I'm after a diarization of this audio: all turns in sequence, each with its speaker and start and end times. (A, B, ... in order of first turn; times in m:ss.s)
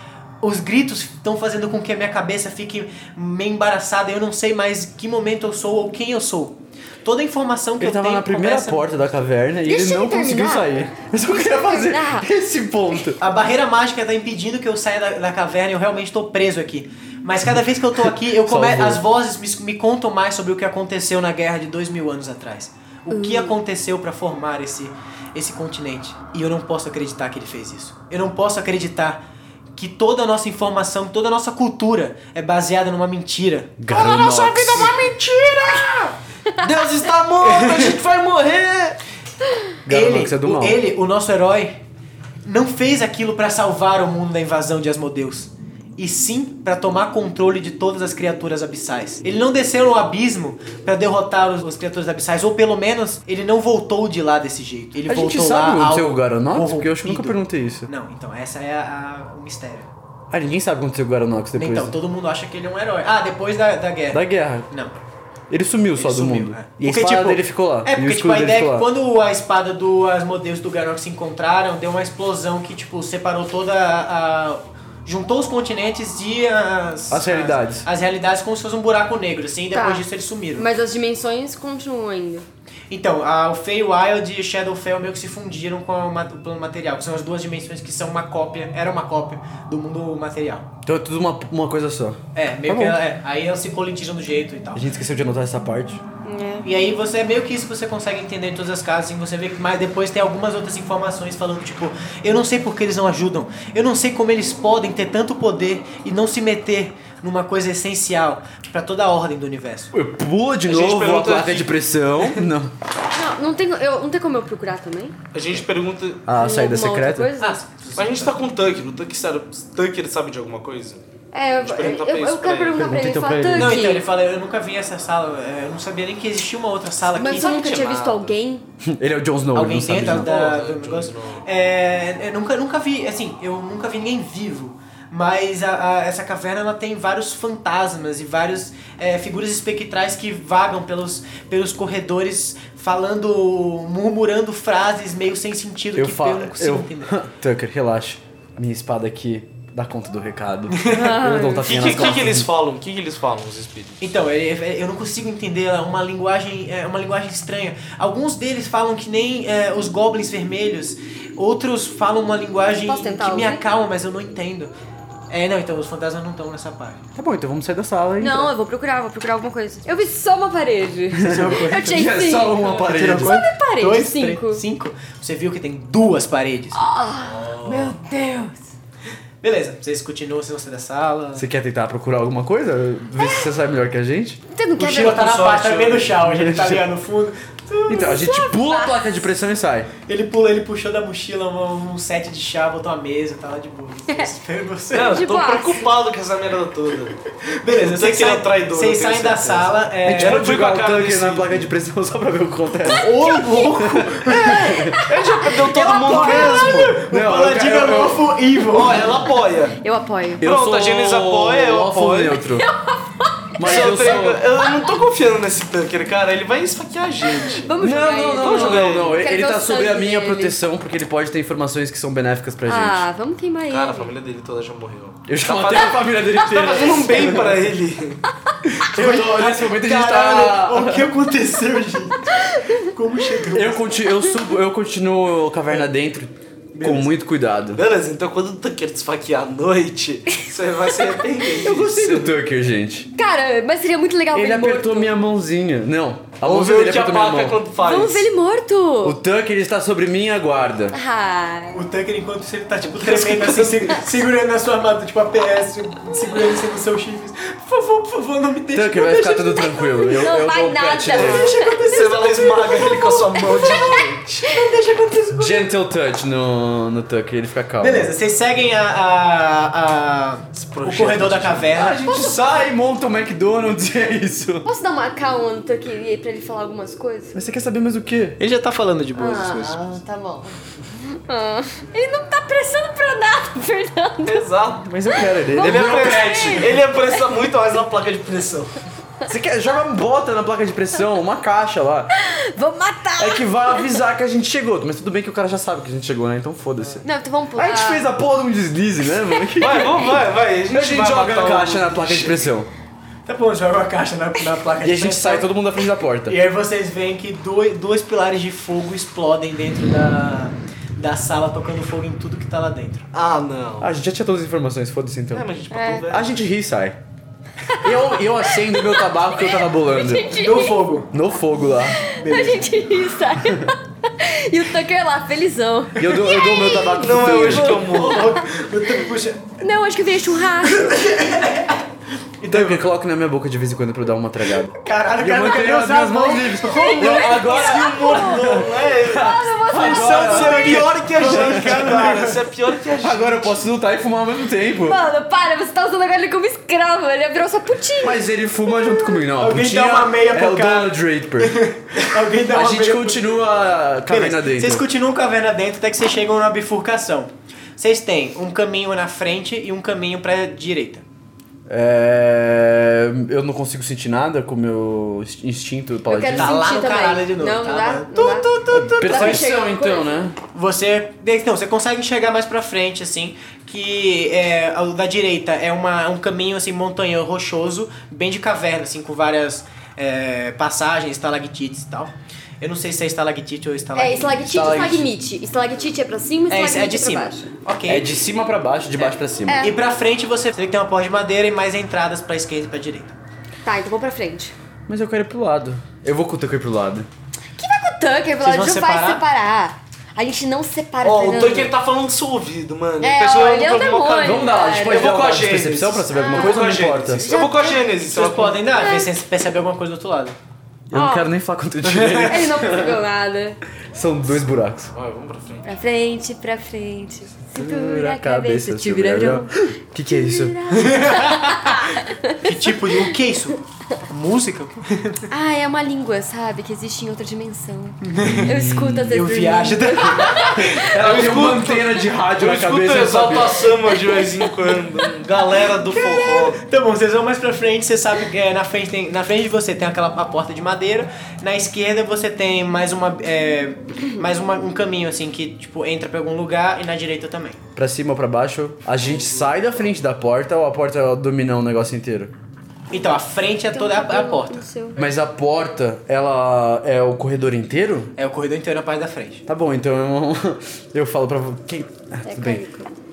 0:00.4-0:08.9 A
0:07.8-0:13.2 B
0:09.6-0:12.3 C
0:13.2-0:29.2 A
0:18.0-0:19.0 B
0:23.1-0:23.5 C
0:29.8-0:36.0 A
0:33.8-0:34.9 B
0:34.7-0:35.9 D
0:36.6-0:39.0 D
0:37.4-0:38.0 A
0:39.8-0:40.8 B
0:39.9-0:41.8 A
0:42.4-0:59.9 A
0:55.1-0:57.9 B
1:00.3-1:01.9 B
1:01.6-1:05.0 A
1:04.1-1:04.7 B
1:05.5-1:08.9 B
1:06.0-1:20.6 A
1:17.1-1:17.8 B
1:19.7-1:22.4 C
1:22.9-1:30.7 A
1:30.8-1:33.0 B
1:32.3-1:34.8 A
1:34.7-1:36.0 B
1:36.2-1:36.6 C
1:36.6-1:49.9 A
1:49.9-1:52.7 B
1:50.6-1:51.7 D
1:53.1-1:55.1 C
1:55.3-1:56.3 D
1:56.2-1:57.3 B
1:56.4-1:57.6 C
1:57.4-1:58.4 A
1:58.0-2:01.0 D
2:01.3-2:04.0 C
2:01.6-2:02.8 D
2:02.7-2:03.8 B
2:03.5-2:07.9 A
2:07.1-2:08.6 C
2:07.3-2:08.3 D
2:08.8-2:10.3 B
2:09.5-2:27.2 A
2:10.0-2:11.4 D
2:25.9-2:32.5 B
2:30.7-2:31.2 A
2:30.9-2:32.2 C
2:31.6-2:34.0 D
2:34.0-2:44.7 A
2:42.8-2:43.6 C
2:45.3-2:47.0 A
2:47.1-2:48.5 B
2:48.2-2:54.6 C
2:51.1-2:53.4 B
2:51.2-2:52.1 A
2:52.8-2:56.8 A
2:56.7-2:58.6 C
2:57.2-2:57.9 D
2:59.4-3:01.4 A
3:01.3-3:04.4 B
3:03.2-3:03.5 C
3:04.5-3:05.3 C
3:04.8-3:08.2 A
3:05.0-3:06.2 D
3:06.2-3:06.8 B
3:07.9-3:09.9 B
3:08.0-3:09.0 C
3:10.0-3:15.3 A
3:14.9-3:17.2 D
3:15.0-3:15.8 C
3:17.4-3:20.5 A
3:17.7-3:21.6 D
3:20.0-3:25.0 B
3:22.8-3:24.7 A
3:22.9-3:23.7 C
3:24.4-3:26.9 C
3:25.0-3:27.0 D
3:25.7-3:29.1 A
3:27.0-3:28.3 B
3:28.6-3:29.8 D
3:29.8-3:30.4 C
3:30.4-3:32.7 B
3:30.4-3:32.4 D
3:32.5-3:35.0 C
3:33.6-3:34.4 B
3:33.6-3:37.7 D
3:37.4-3:40.6 C
3:37.8-3:43.0 B
3:38.4-3:39.2 D
3:42.6-3:44.1 C
3:43.7-3:48.2 D
3:45.3-3:47.6 B
3:48.7-3:53.8 A
3:48.9-3:51.1 B
3:52.4-3:52.8 C
3:53.5-3:57.8 B
3:56.7-3:57.0 A
3:57.7-4:02.4 D
4:01.6-4:03.1 B
4:03.2-4:05.1 C
4:04.3-4:07.6 B
4:06.4-4:08.3 D
4:07.8-4:09.2 C
4:09.0-4:11.0 B
4:10.9-4:11.8 C
4:11.7-4:20.0 A
4:12.8-4:14.1 D
4:18.7-4:21.5 B
4:19.8-4:24.6 C
4:21.1-4:22.4 A
4:21.8-4:24.4 D
4:24.4-4:25.7 A
4:25.4-4:28.1 B
4:27.8-4:32.2 A
4:30.6-4:32.0 D
4:31.7-4:34.6 B
4:32.1-4:32.4 C
4:34.6-4:37.4 C
4:37.3-4:38.4 B
4:38.4-4:39.8 A
4:39.2-4:44.5 C
4:44.2-4:44.9 D
4:44.8-4:46.7 B
4:45.1-4:47.4 C
4:45.6-4:48.8 D
4:49.3-4:52.1 B
4:52.2-4:54.0 C
4:53.2-5:00.0 B
4:57.0-4:58.1 C
4:59.4-4:59.8 C
4:59.6-5:02.5 D
5:00.7-5:02.7 B
5:03.2-5:05.5 A
5:04.8-5:06.4 B
5:06.2-5:13.0 A
5:13.1-5:13.9 D
5:13.8-5:15.5 B
5:15.3-5:16.3 D
5:15.7-5:16.1 C
5:16.1-5:17.0 B
5:17.7-5:20.8 C
5:17.8-5:20.3 B
5:20.3-5:21.1 A
5:21.1-5:22.0 B
5:21.8-5:28.4 C
5:22.1-5:22.7 A
5:23.4-5:23.7 B
5:26.0-5:27.9 B
5:26.8-5:28.4 D
5:27.5-5:29.5 A
5:29.6-5:31.0 C
5:30.6-5:31.8 A
5:32.4-5:32.8 A
5:32.5-5:42.0 B
5:34.7-5:37.4 A
5:36.6-5:41.0 C
5:37.0-5:43.6 D
5:40.7-5:42.4 A
5:43.0-5:45.0 B
5:44.8-5:48.2 C
5:48.0-5:51.6 B
5:49.4-5:53.4 A
5:52.5-5:54.8 B
5:54.1-6:01.0 A
6:01.7-6:06.5 B
6:06.1-6:10.3 C
6:06.3-6:09.5 A
6:08.7-6:10.4 B
6:10.5-6:24.8 A
6:23.9-6:27.5 C
6:24.4-6:25.1 B
6:26.5-6:28.1 A
6:27.9-6:29.6 B
6:29.0-6:33.2 A
6:29.5-6:29.8 C
6:33.6-6:34.5 C
6:34.9-6:37.1 B
6:37.6-6:41.7 C
6:38.4-6:39.2 A
6:41.0-6:48.7 D
6:43.0-6:45.1 C
6:44.2-6:47.2 B
6:46.1-6:46.7 C
6:47.2-6:47.9 C
6:48.1-6:50.4 A
6:48.7-6:49.1 C
6:50.9-6:53.0 B
6:50.9-6:51.3 C
6:51.8-6:52.4 A
6:52.2-6:53.6 C
6:53.9-6:54.9 B
6:54.9-6:55.7 D
6:55.6-6:59.5 C
6:57.5-7:00.6 B
7:00.0-7:03.1 C
7:00.7-7:05.3 A
7:05.3-7:10.9 C
7:08.0-7:10.9 A
7:08.3-7:09.2 B
7:10.6-7:13.7 B
7:10.9-7:16.6 D
7:13.7-7:14.7 C
7:15.8-7:27.6 A
7:27.8-7:32.3 B
7:29.0-7:29.5 D
7:32.9-7:34.6 A
7:33.7-7:35.0 C
7:35.0-7:38.1 B
7:38.2-7:39.4 A
7:39.5-7:42.6 B
7:42.2-7:42.9 C